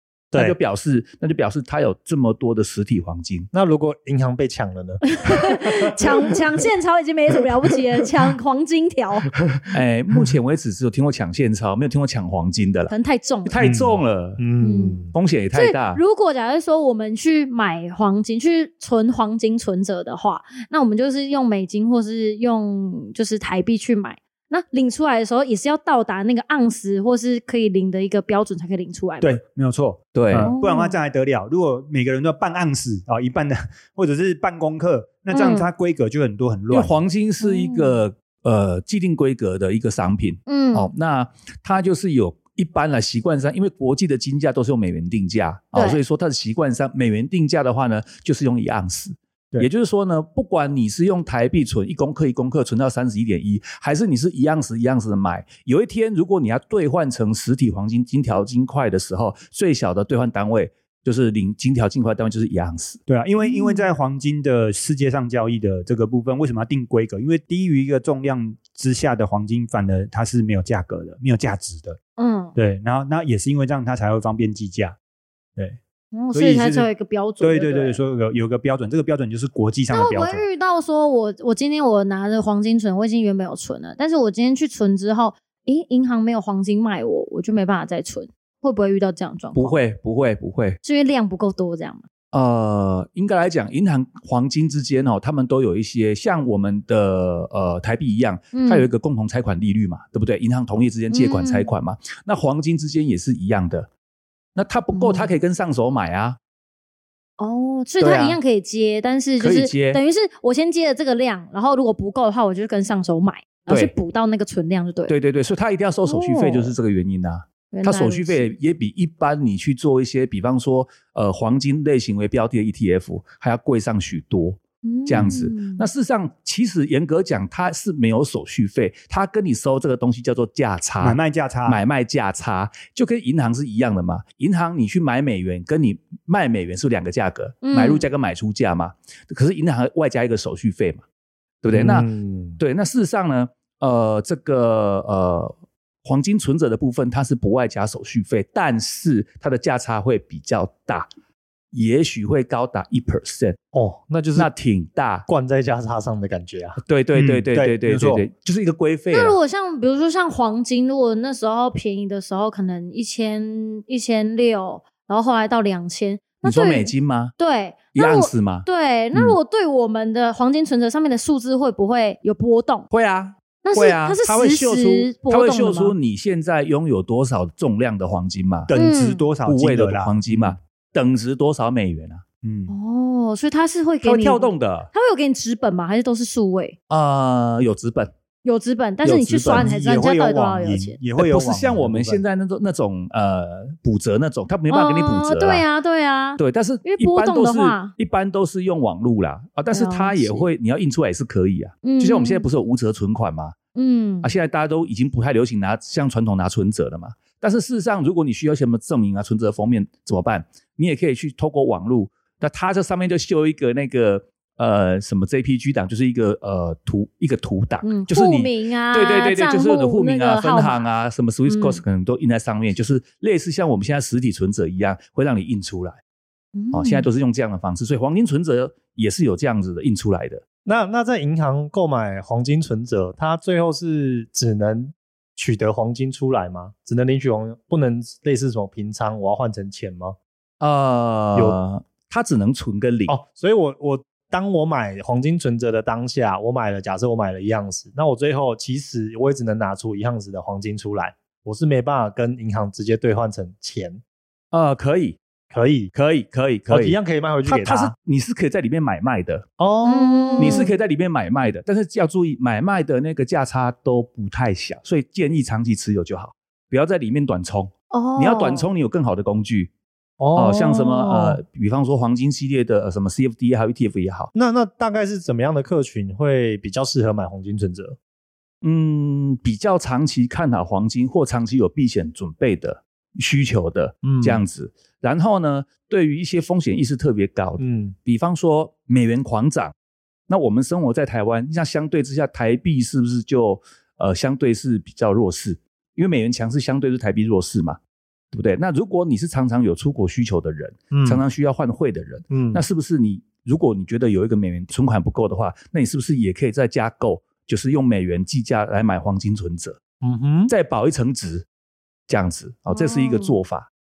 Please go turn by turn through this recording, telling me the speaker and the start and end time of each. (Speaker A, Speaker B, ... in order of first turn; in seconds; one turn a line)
Speaker A: 0.3-0.6
Speaker B: 0.3-3.5
Speaker A: 3.5-5.8
Speaker C: 5.1-9.3
Speaker B: 9.7-12.9
Speaker C: 12.9-13.6
Speaker B: 13.4-14.4
Speaker A: 13.6-15.1
Speaker C: 14.6-29.4
Speaker B: 15.1-16.0
Speaker D: 29.2-37.0
Speaker B: 30.1-30.5
Speaker C: 30.3-31.0
Speaker C: 35.3-35.7
Speaker B: 36.7-63.0
Speaker C: 37.4-38.0
Speaker C: 40.5-40.9
Speaker C: 45.7-46.0
Speaker D: 63.1-72.0
Speaker C: 63.4-63.9
Speaker C: 72.2-72.5
Speaker D: 72.5-75.0
Speaker C: 76.1-78.0
Speaker D: 76.3-76.9
Speaker D: 77.4-80.4
Speaker C: 79.9-89.8
Speaker B: 89.5-90.8
Speaker C: 90.8-92.0
Speaker B: 92.3-103.9
Speaker C: 98.5-98.9
Speaker C: 101.1-101.7
Speaker B: 104.5-106.4
Speaker C: 104.9-105.3
Speaker C: 107.4-115.2
Speaker B: 108.0-108.4
Speaker B: 109.4-110.0
Speaker B: 113.7-113.9
Speaker B: 115.1-141.0
Speaker C: 116.1-116.7
Speaker C: 117.7-118.5
Speaker C: 124.8-125.8
Speaker D: 131.0-131.8
Speaker C: 137.6-138.1
Speaker B: 141.6-151.1
Speaker A: 141.7-142.6
Speaker B: 151.7-153.6
Speaker A: 153.7-154.5
Speaker B: 154.3-155.2
Speaker A: 155.2-156.8
Speaker B: 156.8-159.3
Speaker D: 157.1-158.2
Speaker C: 159.1-172.9
Speaker B: 166.4-167.3
Speaker B: 167.9-169.3
Speaker B: 172.9-178.7
Speaker C: 173.6-175.9
Speaker D: 178.7-180.6
Speaker C: 178.7-179.2
Speaker B: 179.4-182.2
Speaker D: 182.4-182.7
Speaker C: 182.7-186.7
Speaker B: 184.0-184.9
Speaker B: 186.9-188.1
Speaker C: 188.4-191.0
Speaker D: 189.0-192.2
Speaker B: 189.1-189.7
Speaker B: 191.2-195.7
Speaker C: 194.7-197.9
Speaker B: 196.4-203.5
Speaker C: 199.7-200.5
Speaker C: 201.8-202.5
Speaker C: 203.8-204.3
Speaker B: 204.2-226.0
Speaker C: 217.8-220.8
Speaker C: 221.4-221.8
Speaker C: 226.5-227.1
Speaker B: 226.7-230.4
Speaker A: 230.6-240.2
Speaker B: 240.6-243.2
Speaker A: 243.1-254.0
Speaker B: 254.5-255.2
Speaker A: 255.5-255.9
Speaker B: 255.9-259.5
Speaker A: 256.7-257.9
Speaker A: 259.6-260.7
Speaker C: 259.8-260.7
Speaker B: 260.4-269.7
Speaker C: 267.9-268.7
Speaker A: 270.2-271.4
Speaker B: 270.3-274.3
Speaker A: 274.3-278.0
Speaker B: 278.6-289.7
Speaker A: 284.0-284.4
Speaker A: 287.6-287.9
Speaker B: 290.3-297.8
Speaker B: 298.3-309.8
Speaker A: 300.9-301.2
Speaker A: 302.3-302.6
Speaker A: 310.0-310.5
Speaker B: 310.5-311.4
Speaker B: 312.1-313.7
Speaker C: 312.7-313.4